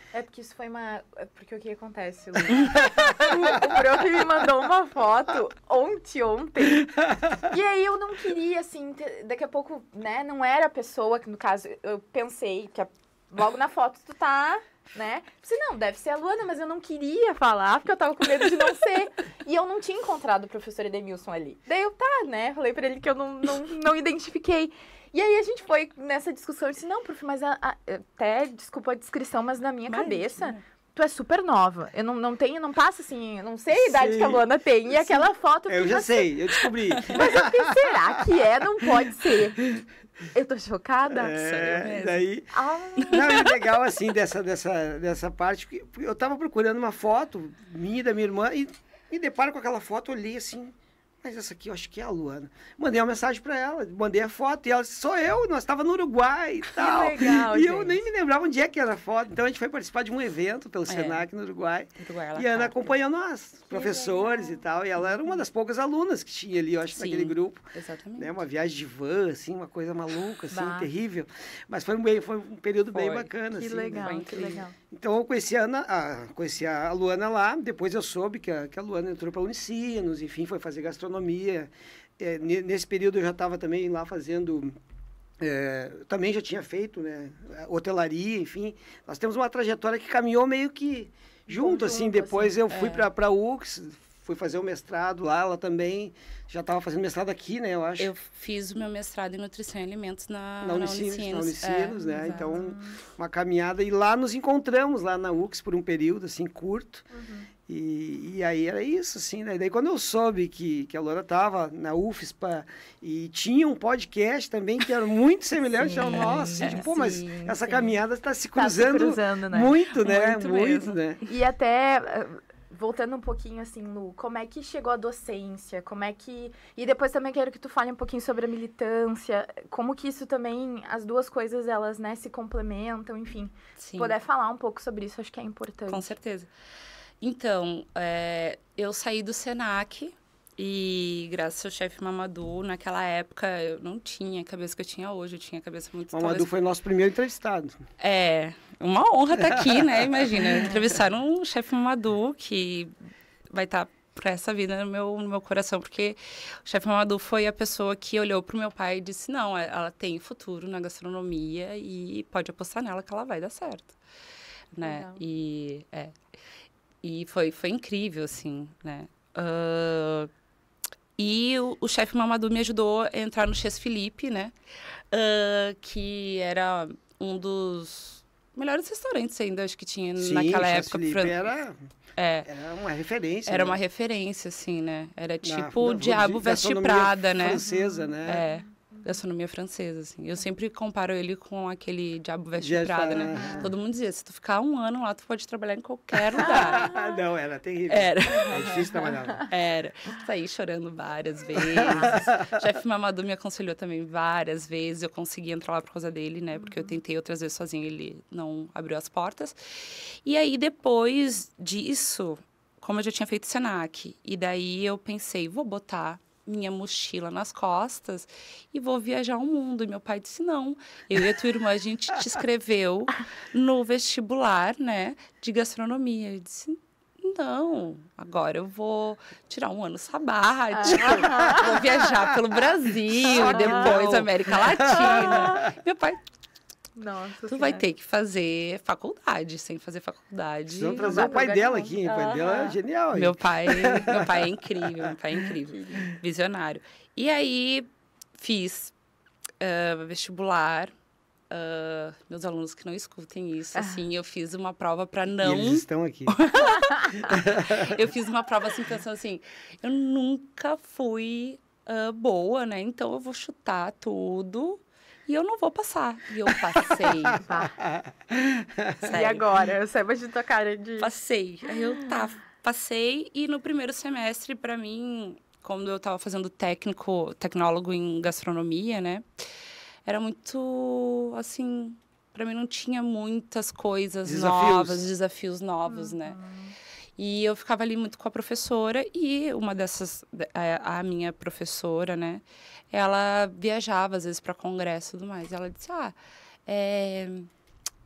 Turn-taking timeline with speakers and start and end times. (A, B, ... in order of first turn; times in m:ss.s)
0:00.1-0:39.7 A
0:03.0-0:03.6 B
0:29.9-0:30.6 C
0:33.7-0:37.8 B
0:40.3-0:41.4 A
0:41.1-0:42.5 B
0:41.4-0:42.3 C
0:42.5-0:43.6 A
0:43.0-0:43.4 C
0:43.1-1:07.6 B
0:56.7-0:58.0 A
1:00.9-1:01.3 C
1:02.0-1:02.8 C
1:03.7-1:05.4 A
1:06.9-1:08.3 C
1:08.2-1:24.8 B
1:10.5-1:10.9 A
1:12.9-1:13.3 C
1:13.5-1:14.8 A
1:13.9-1:14.6 C
1:25.4-1:38.1 B
1:31.5-1:32.6 A
1:32.7-1:33.1 C
1:38.0-1:42.7 C
1:40.6-1:47.1 B
1:42.2-1:43.0 A
1:47.1-1:47.5 A
1:47.7-2:01.2 B
1:55.8-1:58.0 A
1:55.9-1:56.8 C
1:58.5-1:59.8 A
2:00.0-2:01.0 C
2:01.2-2:16.1 A
2:13.8-2:14.2 C
2:15.9-2:16.5 C
2:17.2-2:26.5 C
2:26.1-2:27.9 B
2:28.0-2:32.9 C
2:29.4-2:30.1 B
2:33.5-2:44.0 C
2:44.7-2:46.2 C
2:44.8-2:45.2 A
2:47.0-2:50.3 C
2:51.2-2:54.5 C
2:55.1-3:01.5 C
3:00.2-3:01.9 B
3:02.2-3:02.5 C
3:02.5-3:03.8 B
3:03.5-3:07.6 C
3:05.4-3:08.4 B
3:07.6-3:09.2 A
3:08.2-3:16.9 C
3:12.6-3:13.7 B
3:13.3-3:13.7 A
3:16.4-3:19.5 B
3:16.5-3:17.2 A
3:17.9-3:56.2 C
3:18.4-3:19.1 A
3:21.6-3:22.7 B
3:26.6-3:27.0 A
3:50.7-3:51.8 A
3:51.0-3:51.8 B
3:53.2-3:55.7 B
3:53.4-3:54.0 A
3:54.9-3:55.7 A
3:57.0-3:57.8 A
3:57.5-4:01.4 C
4:00.8-4:04.5 B
4:01.0-4:02.8 A
4:03.1-4:08.9 C
4:09.6-4:10.9 C
4:11.5-4:27.5 C
4:15.4-4:16.4 B
4:16.8-4:17.1 A
4:17.2-4:18.0 B
4:27.2-4:29.2 B
4:27.5-4:27.8 A
4:29.0-4:31.1 A
4:29.0-4:29.4 C
4:31.0-4:39.2 C
4:31.7-4:32.1 A
4:40.1-4:46.4 C
4:44.2-4:45.0 B
4:45.9-4:46.8 A
4:47.2-4:56.2 C
4:56.7-4:57.5 C